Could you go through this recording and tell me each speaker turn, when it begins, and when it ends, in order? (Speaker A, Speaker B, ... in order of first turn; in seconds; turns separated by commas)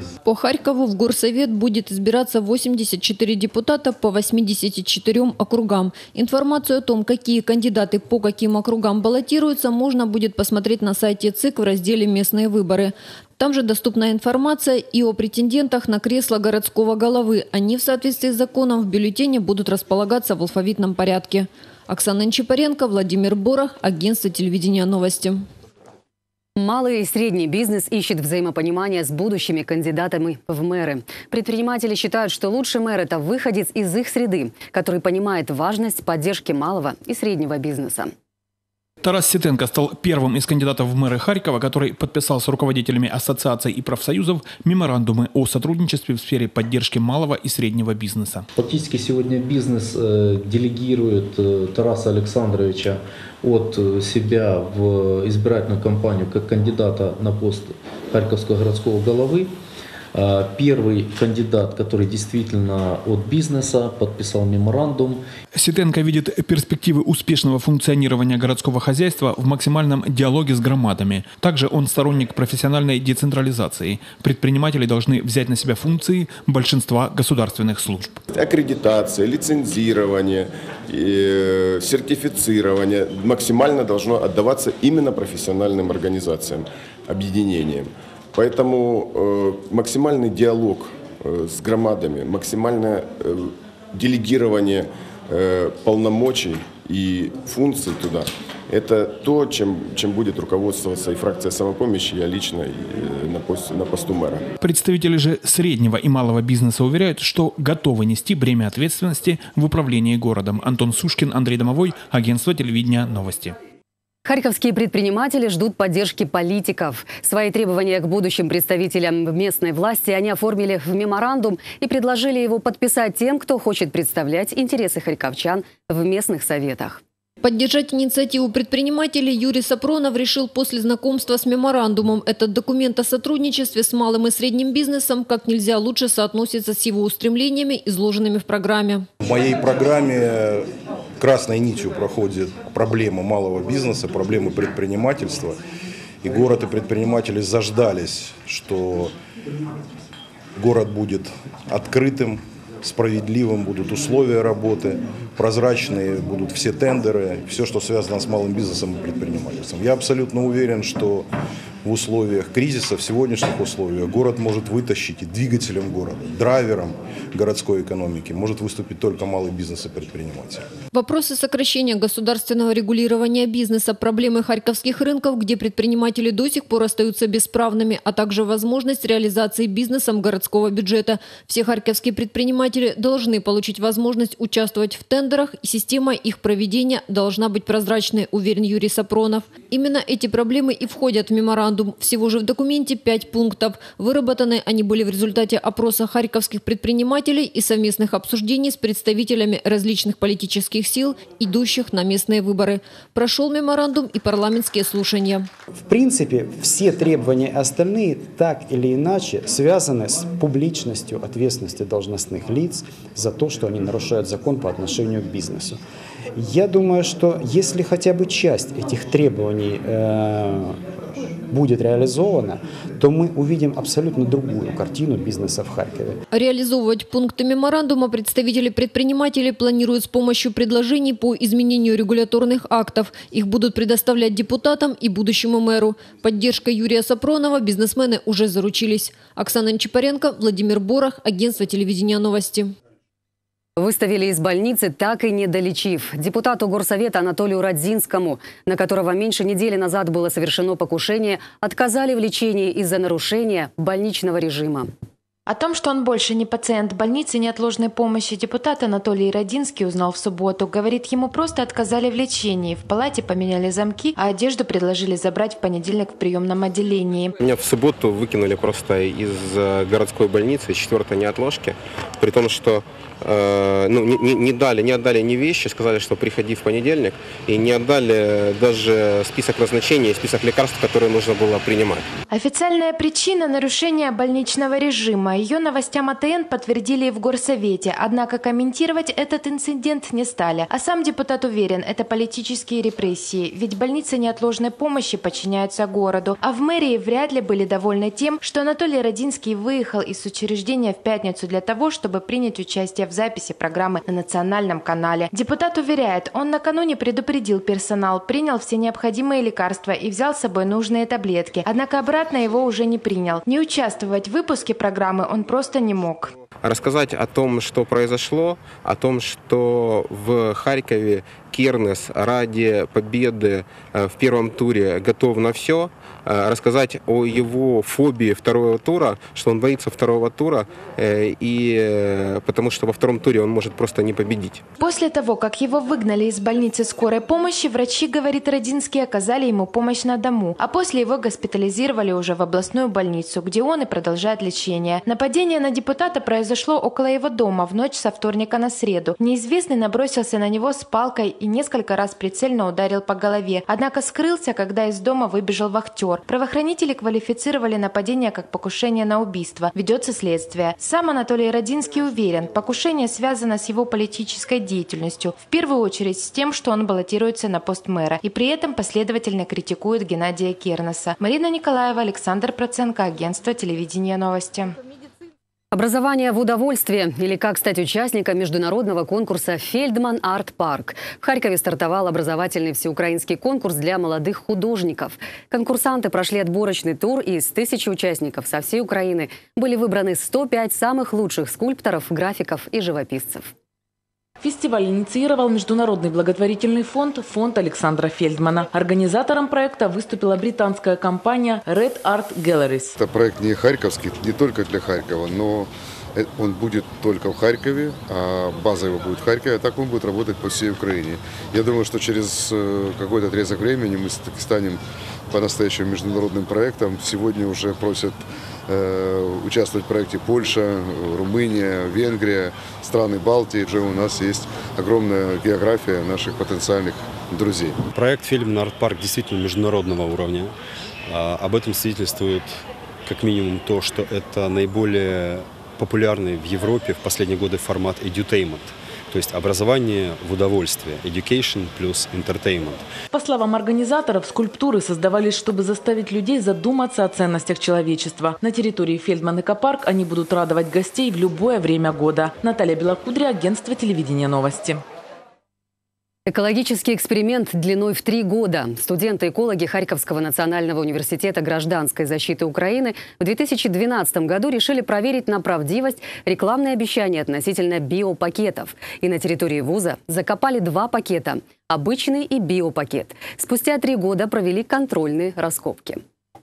Speaker A: 0.2-25.4, Speaker B: 26.6-38.1, Speaker C: 39.0-48.5, Speaker D: 48.6-59.5, Speaker D: 60.1-65.2, Speaker C: 65.5-78.2, Speaker E: 78.3-104.5, Speaker C: 104.6-113.6, Speaker B: 114.3-127.0, Speaker A: 127.4-139.1, Speaker F: 139.2-145.6, Speaker F: 146.2-149.1, Speaker F: 150.6-161.3, Speaker F: 161.8-170.6, Speaker A: 170.9-205.5, Speaker G: 205.9-215.8, Speaker G: 216.3-220.8, Speaker G: 221.5-226.2, Speaker A: 226.3-242.8, Speaker B: 243.8-254.9, Speaker H: 255.5-267.3, Speaker I: 267.4-282.1, Speaker H: 282.3-316.4, Speaker I: 316.6-334.6, Speaker H: 334.8-374.8, Speaker B: 375.7-393.5, Speaker J: 394.4-403.0, Speaker K: 403.0-427.8, Speaker L: 427.9-430.6, Speaker L: 431.1-442.9, Speaker J: 443.1-454.8, Speaker B: 456.3-476.0